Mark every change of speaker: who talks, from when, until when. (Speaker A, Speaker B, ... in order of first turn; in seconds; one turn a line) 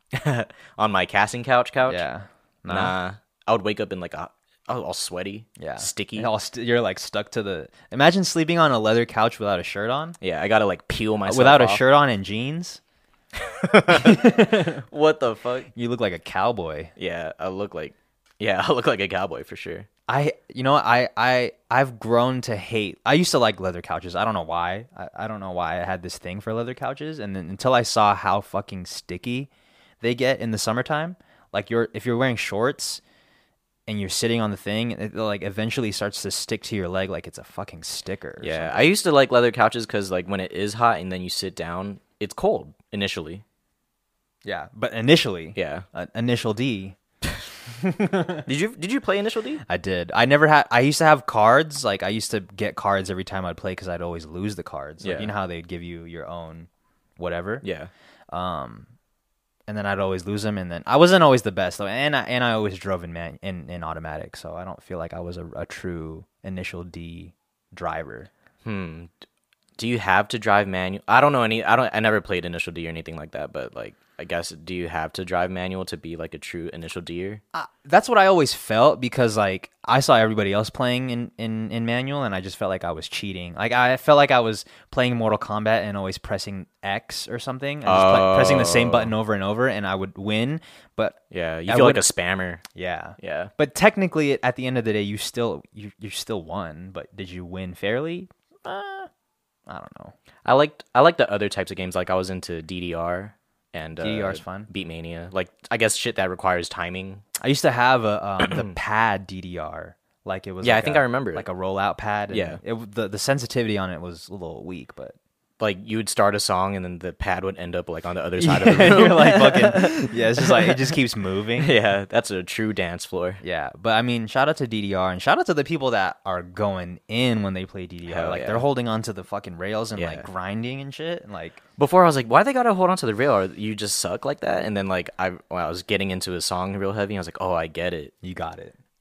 Speaker A: 0.1-2.0
Speaker B: 1.9-3.0
Speaker A: 2.7-6.3
Speaker B: 5.6-10.2
Speaker A: 10.2-11.8
Speaker B: 11.3-12.8
Speaker A: 13.4-15.7
Speaker B: 13.9-14.8
Speaker B: 15.8-16.9
Speaker A: 17.0-19.9
Speaker B: 20.1-29.5
Speaker B: 30.0-33.0
Speaker B: 33.9-38.9
Speaker A: 38.4-43.4
Speaker B: 44.5-47.0
Speaker A: 45.6-45.9
Speaker B: 47.8-48.4
Speaker A: 48.5-49.6
Speaker B: 49.7-57.6
Speaker A: 55.0-55.3
Speaker A: 57.6-57.9
Speaker B: 58.3-58.9
Speaker B: 59.7-68.3
Speaker A: 68.6-69.1
Speaker A: 69.8-77.4
Speaker B: 77.5-92.1
Speaker A: 87.8-89.1
Speaker A: 91.3-92.6
Speaker B: 92.8-99.1
Speaker A: 93.2-93.5
Speaker B: 99.7-100.1
Speaker A: 100.5-107.2
Speaker B: 104.0-104.7
Speaker B: 107.4-115.2
Speaker A: 108.4-108.7
Speaker A: 110.6-111.5
Speaker A: 112.3-112.6
Speaker A: 115.6-120.9
Speaker B: 118.4-121.7
Speaker A: 121.6-123.4
Speaker B: 123.4-131.6
Speaker A: 128.1-128.7
Speaker A: 129.9-130.3
Speaker A: 131.8-138.1
Speaker B: 138.2-138.8